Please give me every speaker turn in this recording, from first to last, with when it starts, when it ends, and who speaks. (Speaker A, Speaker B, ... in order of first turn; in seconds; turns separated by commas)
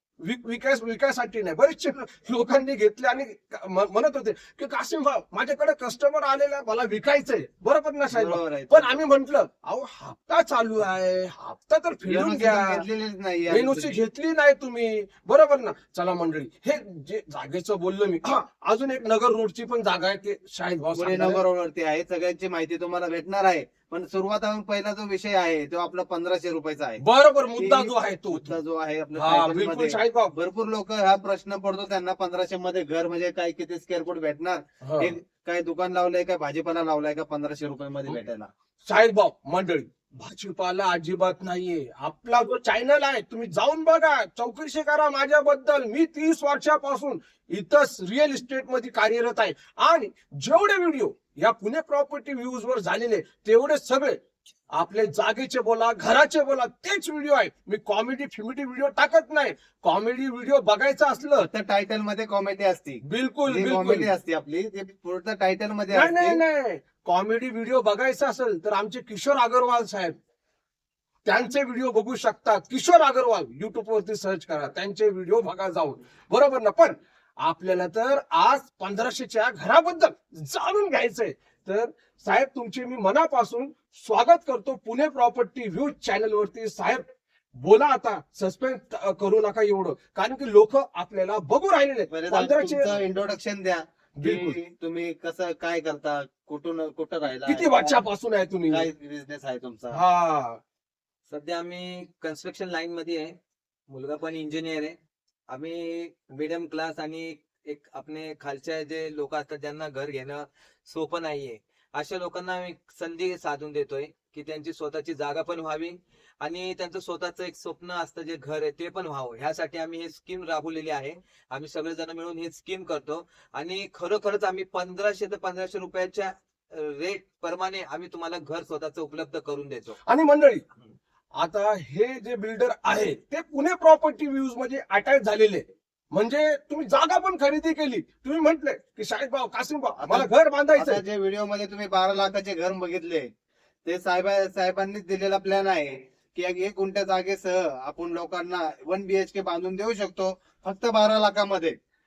Speaker A: 0.2-12.8, Speaker B: 8.1-9.0, Speaker B: 12.1-14.0, Speaker A: 13.5-21.4, Speaker B: 20.9-27.0, Speaker A: 27.0-28.5, Speaker B: 27.6-38.5, Speaker A: 29.1-30.3, Speaker A: 34.8-35.1, Speaker A: 38.9-54.2, Speaker A: 54.7-61.5, Speaker B: 61.4-66.4, Speaker A: 63.0-64.1, Speaker A: 65.9-70.1, Speaker A: 71.2-87.0, Speaker A: 87.5-92.9, Speaker B: 92.1-98.0, Speaker A: 94.2-94.6, Speaker A: 97.5-98.9, Speaker B: 98.7-100.0, Speaker A: 99.9-100.6, Speaker C: 101.3-103.3, Speaker C: 103.9-105.0, Speaker C: 105.5-130.0, Speaker A: 130.0-130.6, Speaker A: 131.4-141.0, Speaker B: 140.0-143.3, Speaker B: 143.8-151.8